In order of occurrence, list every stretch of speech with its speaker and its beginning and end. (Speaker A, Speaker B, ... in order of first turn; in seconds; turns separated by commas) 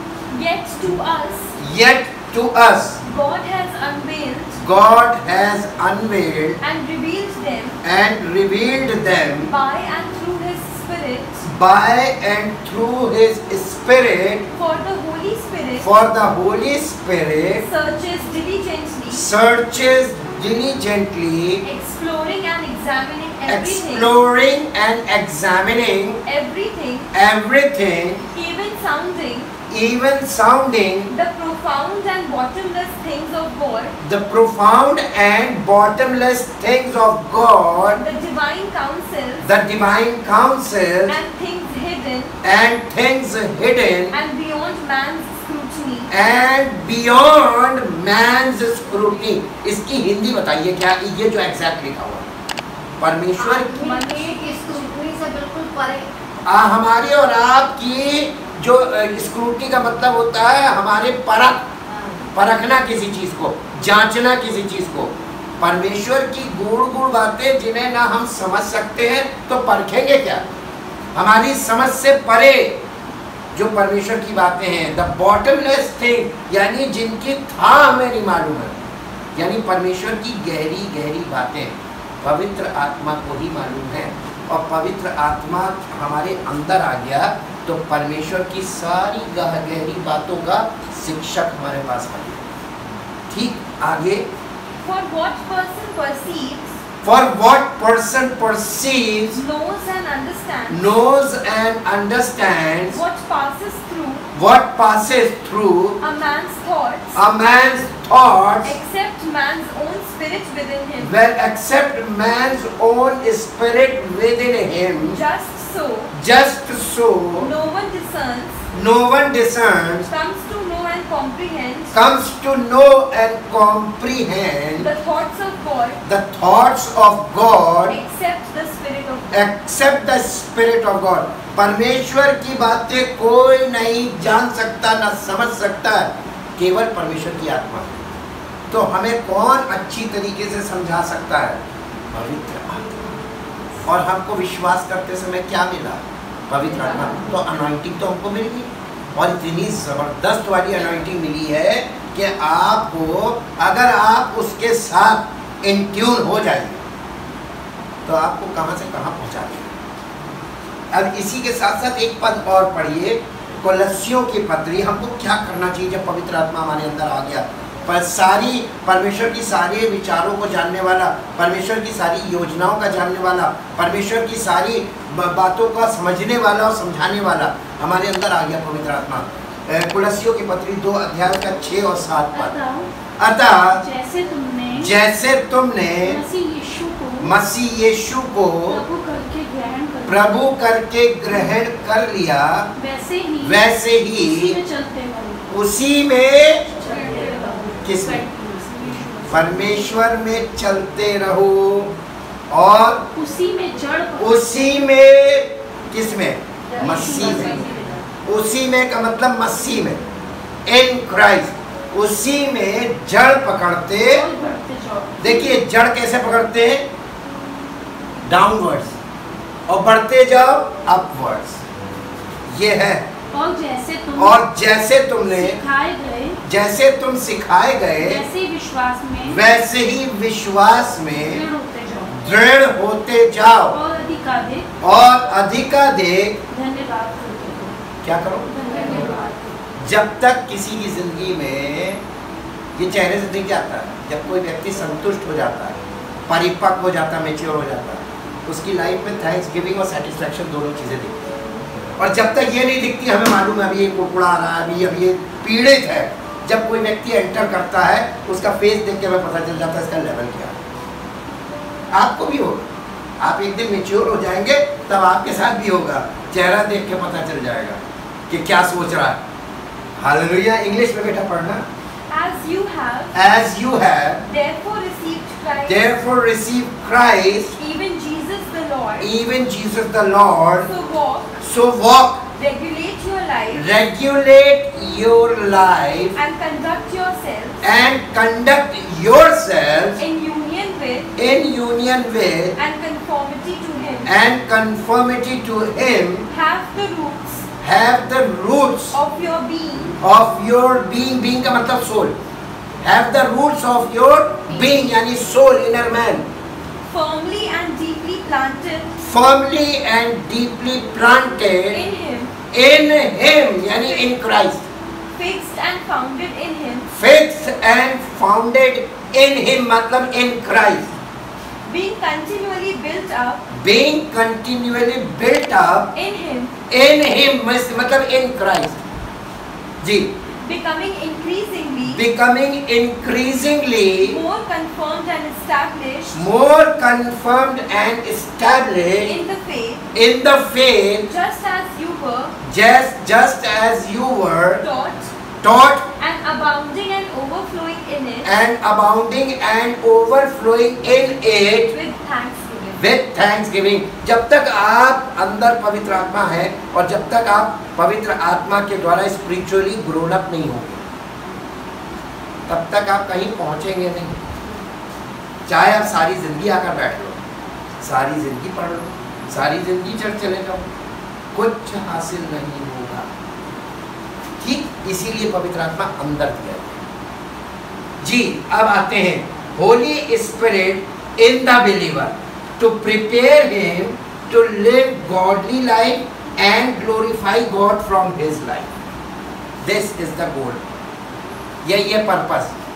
Speaker A: 0.3-1.6, Speaker B: 1.6-3.0, Speaker A: 3.0-4.6, Speaker B: 4.6-6.6, Speaker A: 6.6-7.8, Speaker B: 7.8-9.5, Speaker A: 9.4-11.4, Speaker B: 11.4-14.4, Speaker A: 14.5-15.9, Speaker B: 15.8-17.6, Speaker A: 17.6-19.2, Speaker B: 19.1-21.6, Speaker A: 21.6-24.1, Speaker B: 23.5-26.2, Speaker A: 26.3-27.1, Speaker B: 27.1-28.2, Speaker A: 28.3-29.5, Speaker B: 29.7-31.1, Speaker A: 31.1-33.9, Speaker B: 34.0-38.0, Speaker A: 38.0-39.5, Speaker B: 39.4-41.2, Speaker A: 41.1-42.4, Speaker B: 42.4-44.2, Speaker A: 44.1-46.1, Speaker B: 46.1-52.3, Speaker B: 53.0-53.7, Speaker C: 53.4-56.1, Speaker A: 53.7-54.9, Speaker B: 56.4-61.6, Speaker C: 61.9-62.2, Speaker B: 62.3-70.4, Speaker B: 71.1-72.8, Speaker B: 73.5-92.5, Speaker B: 93.3-94.3, Speaker A: 94.8-96.8, Speaker B: 97.0-99.4, Speaker A: 99.3-100.9, Speaker B: 100.7-103.0, Speaker A: 102.9-104.3, Speaker B: 104.3-106.0, Speaker A: 106.0-107.2, Speaker B: 107.1-108.8, Speaker A: 108.6-111.1, Speaker B: 111.0-115.2, Speaker A: 115.0-116.1, Speaker B: 116.1-117.5, Speaker A: 117.4-118.7, Speaker B: 118.7-120.1, Speaker A: 120.1-121.9, Speaker B: 121.9-124.9, Speaker A: 124.8-126.0, Speaker B: 126.0-128.0, Speaker A: 127.9-129.4, Speaker B: 129.3-138.0, Speaker B: 138.7-143.2, Speaker B: 143.8-156.8, Speaker B: 158.0-159.7, Speaker B: 160.9-182.5, Speaker D: 182.3-182.9, Speaker B: 183.2-183.8, Speaker D: 183.7-184.9, Speaker B: 184.8-186.2, Speaker D: 186.0-187.3, Speaker B: 187.2-188.8, Speaker D: 188.7-190.4, Speaker B: 190.1-192.7, Speaker D: 192.8-193.6, Speaker B: 193.4-194.6, Speaker D: 194.2-195.5, Speaker B: 195.5-197.1, Speaker D: 196.8-200.0, Speaker B: 197.8-198.2, Speaker B: 199.3-201.9, Speaker B: 202.5-203.1, Speaker D: 203.1-204.8, Speaker B: 204.2-207.7, Speaker D: 206.8-208.1, Speaker A: 207.2-207.5, Speaker B: 208.2-210.0, Speaker B: 210.7-214.3, Speaker D: 214.1-215.6, Speaker B: 215.2-216.9, Speaker B: 218.2-218.9, Speaker B: 219.7-221.6, Speaker B: 222.5-223.1, Speaker D: 223.3-224.4, Speaker B: 224.2-225.6, Speaker D: 225.3-226.4, Speaker B: 226.4-228.2, Speaker D: 228.0-229.4, Speaker B: 229.3-231.4, Speaker D: 231.2-232.2, Speaker B: 232.1-233.8, Speaker D: 233.7-234.7, Speaker B: 234.8-236.4, Speaker D: 236.5-237.8, Speaker B: 238.0-239.2, Speaker D: 238.5-239.6, Speaker B: 239.8-242.0, Speaker B: 242.7-251.4, Speaker B: 252.0-260.6, Speaker B: 261.9-262.7, Speaker B: 263.2-269.2, Speaker B: 270.0-271.6, Speaker A: 272.1-273.1, Speaker B: 273.1-274.2, Speaker A: 274.3-275.9, Speaker B: 275.6-277.6, Speaker A: 277.6-279.1, Speaker B: 279.0-280.7, Speaker A: 280.6-281.4, Speaker B: 281.4-282.2, Speaker A: 282.4-283.7, Speaker B: 283.5-286.1, Speaker A: 286.1-287.6, Speaker B: 287.6-290.0, Speaker A: 290.0-291.1, Speaker B: 291.2-292.6, Speaker A: 292.6-294.1, Speaker B: 294.1-296.3, Speaker A: 296.3-297.4, Speaker B: 297.6-299.0, Speaker A: 298.9-300.0, Speaker B: 300.0-302.1, Speaker B: 302.8-306.3, Speaker A: 306.9-308.9, Speaker B: 309.0-311.8, Speaker A: 311.7-312.3, Speaker B: 312.5-314.7, Speaker A: 315.1-316.9, Speaker B: 316.9-320.9, Speaker A: 321.7-323.4, Speaker B: 323.5-325.9, Speaker A: 325.9-326.5, Speaker B: 326.7-328.8, Speaker B: 329.8-330.1, Speaker A: 330.4-332.0, Speaker B: 331.9-334.2, Speaker A: 334.0-336.2, Speaker B: 336.1-339.1, Speaker A: 339.0-339.9, Speaker B: 339.9-341.1, Speaker A: 341.1-342.4, Speaker B: 342.4-344.6, Speaker A: 344.6-345.1, Speaker B: 345.4-345.9, Speaker A: 346.0-348.2, Speaker B: 348.2-351.7, Speaker A: 351.7-352.8, Speaker B: 352.8-360.8, Speaker B: 362.5-364.2, Speaker B: 365.5-367.2, Speaker B: 367.8-370.6, Speaker B: 371.3-373.1, Speaker B: 374.4-376.8, Speaker B: 378.0-388.7, Speaker B: 389.6-390.6, Speaker B: 391.6-392.5